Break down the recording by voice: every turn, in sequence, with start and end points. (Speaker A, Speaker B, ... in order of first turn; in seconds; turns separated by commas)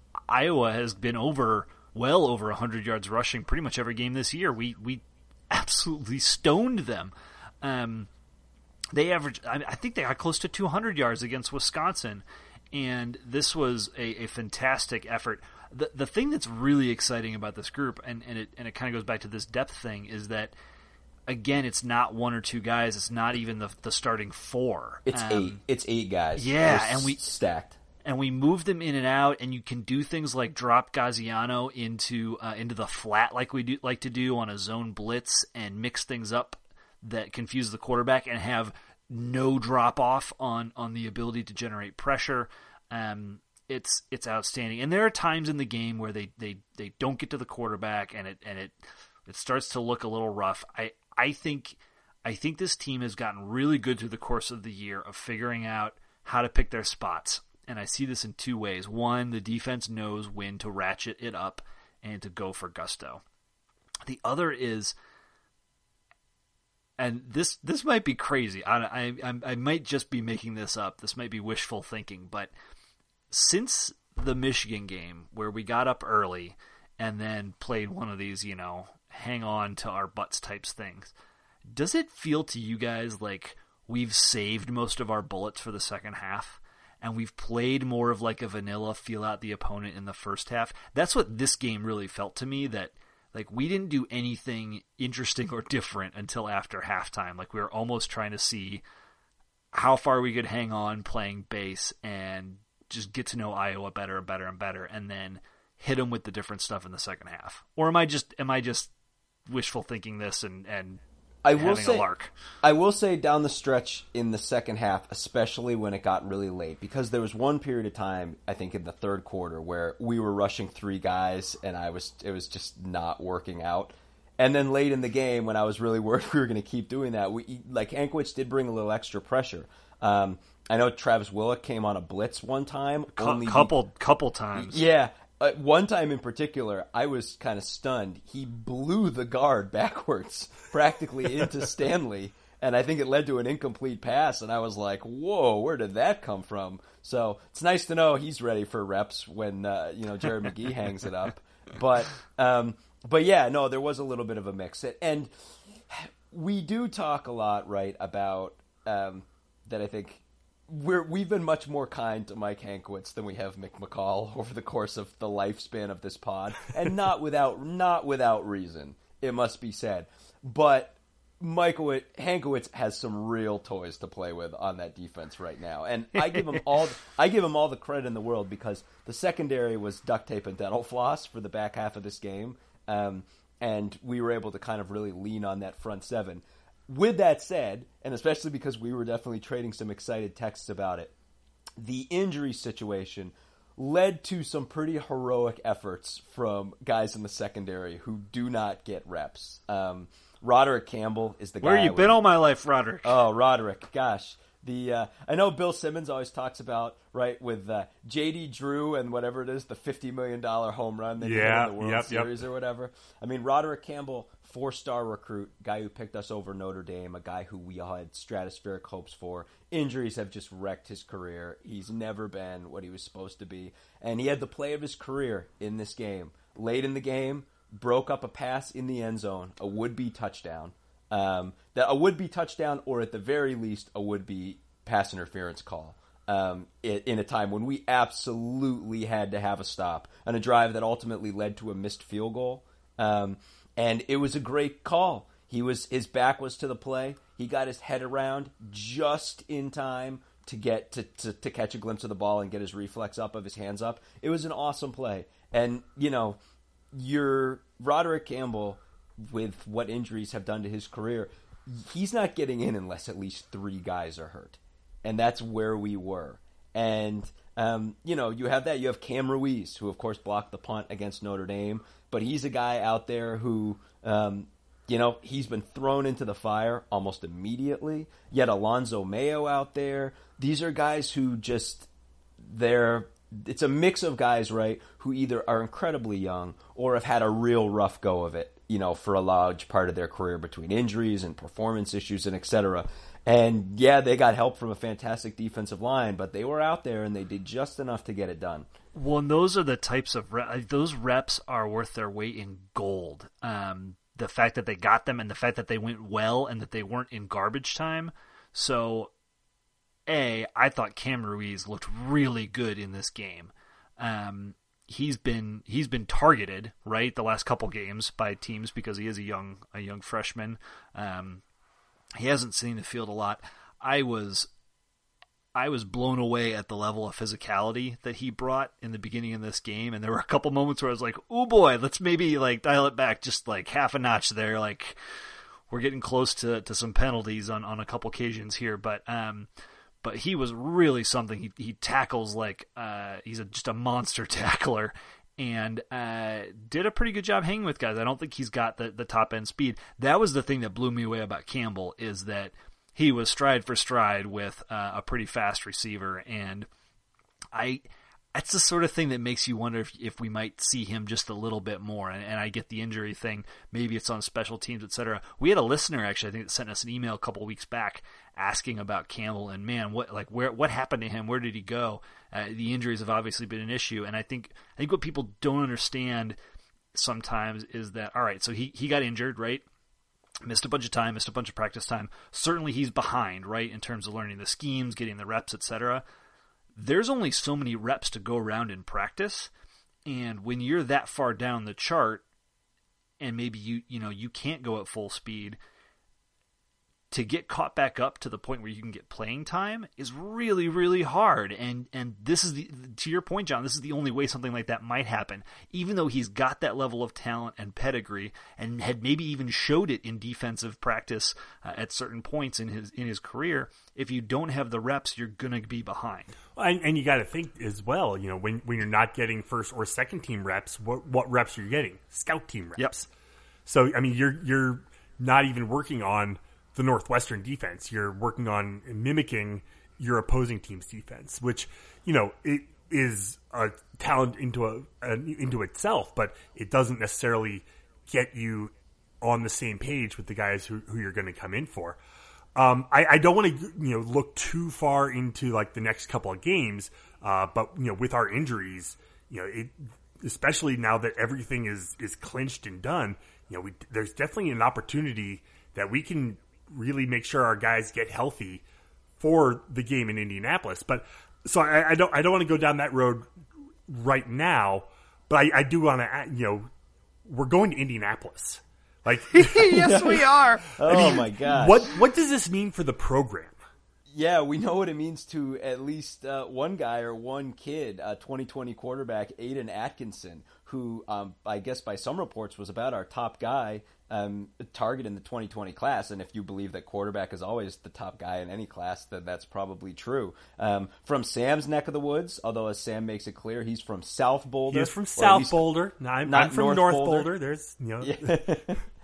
Speaker A: 0.3-8.1, Speaker A: 8.9-20.5, Speaker A: 21.3-25.6, Speaker B: 25.1-27.8, Speaker A: 26.4-27.2, Speaker A: 28.0-63.2, Speaker A: 64.0-64.9, Speaker A: 67.0-72.5, Speaker A: 73.3-81.1, Speaker A: 81.7-98.8, Speaker A: 99.7-108.9, Speaker A: 109.5-111.0, Speaker B: 111.4-112.1, Speaker A: 111.5-112.3, Speaker B: 112.6-133.7, Speaker A: 133.2-134.8, Speaker B: 134.6-191.1, Speaker A: 176.2-176.6, Speaker B: 191.8-202.2, Speaker A: 201.6-203.2, Speaker B: 203.0-256.4, Speaker C: 211.2-212.3, Speaker B: 256.9-281.9, Speaker B: 282.4-298.7, Speaker A: 298.9-309.1, Speaker A: 310.1-321.4, Speaker A: 322.2-324.5, Speaker A: 325.5-335.0, Speaker A: 335.7-339.5, Speaker A: 340.0-356.7, Speaker A: 357.5-376.4, Speaker A: 376.9-379.6, Speaker A: 380.4-386.0, Speaker A: 386.8-389.5, Speaker A: 390.1-392.2, Speaker A: 393.2-395.6, Speaker A: 397.1-416.3, Speaker C: 416.6-423.1, Speaker C: 423.6-442.0, Speaker C: 442.6-458.6, Speaker C: 459.2-463.3, Speaker C: 463.9-466.7, Speaker C: 467.2-470.2, Speaker A: 469.3-471.0, Speaker B: 469.6-471.9, Speaker C: 470.8-473.6, Speaker B: 474.1-495.6, Speaker C: 494.7-498.3, Speaker B: 496.2-497.3, Speaker B: 498.0-498.8